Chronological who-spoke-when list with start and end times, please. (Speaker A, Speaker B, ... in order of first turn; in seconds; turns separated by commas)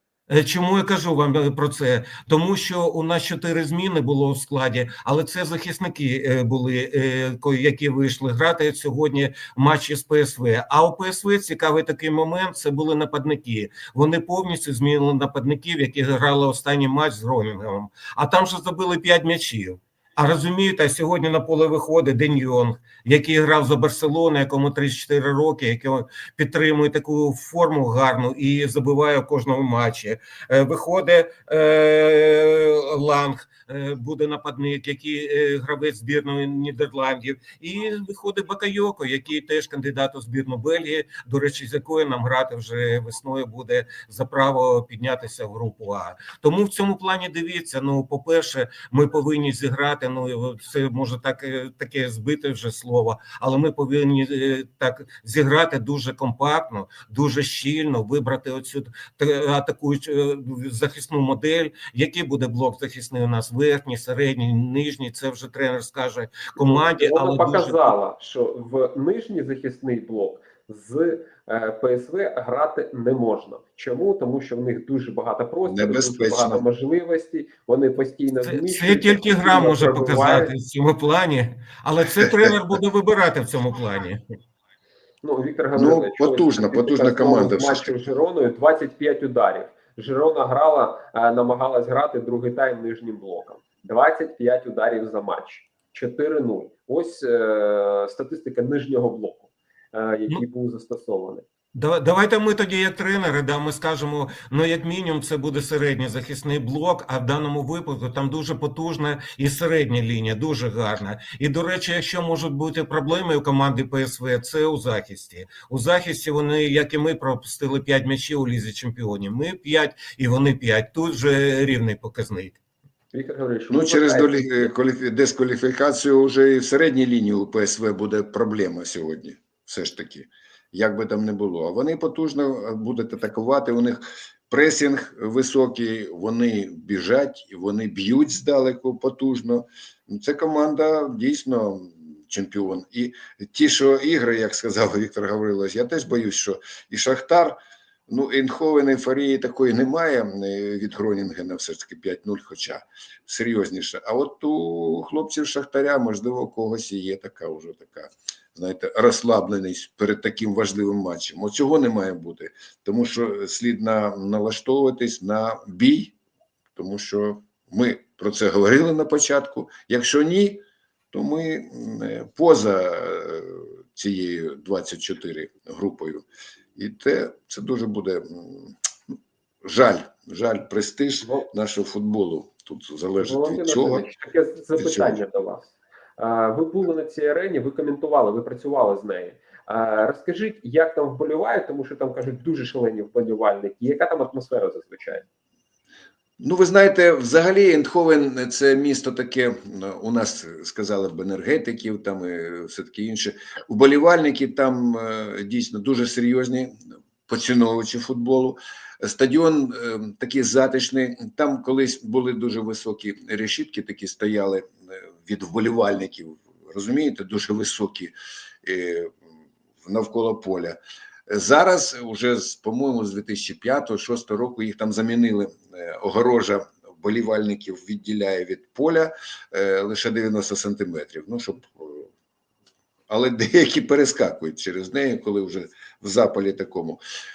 Speaker A: 0.3-67.9, Speaker B: 66.6-80.5, Speaker C: 75.7-76.6, Speaker A: 78.5-84.2, Speaker C: 82.2-82.5, Speaker B: 85.2-101.4, Speaker C: 85.7-88.0, Speaker A: 101.7-122.6, Speaker B: 123.1-124.7, Speaker C: 123.7-147.6, Speaker C: 148.1-166.1, Speaker C: 166.8-176.2, Speaker C: 176.8-178.8, Speaker C: 179.6-184.1, Speaker B: 183.2-195.2, Speaker C: 184.8-185.2, Speaker C: 196.4-219.2, Speaker C: 219.8-232.1, Speaker C: 233.1-237.0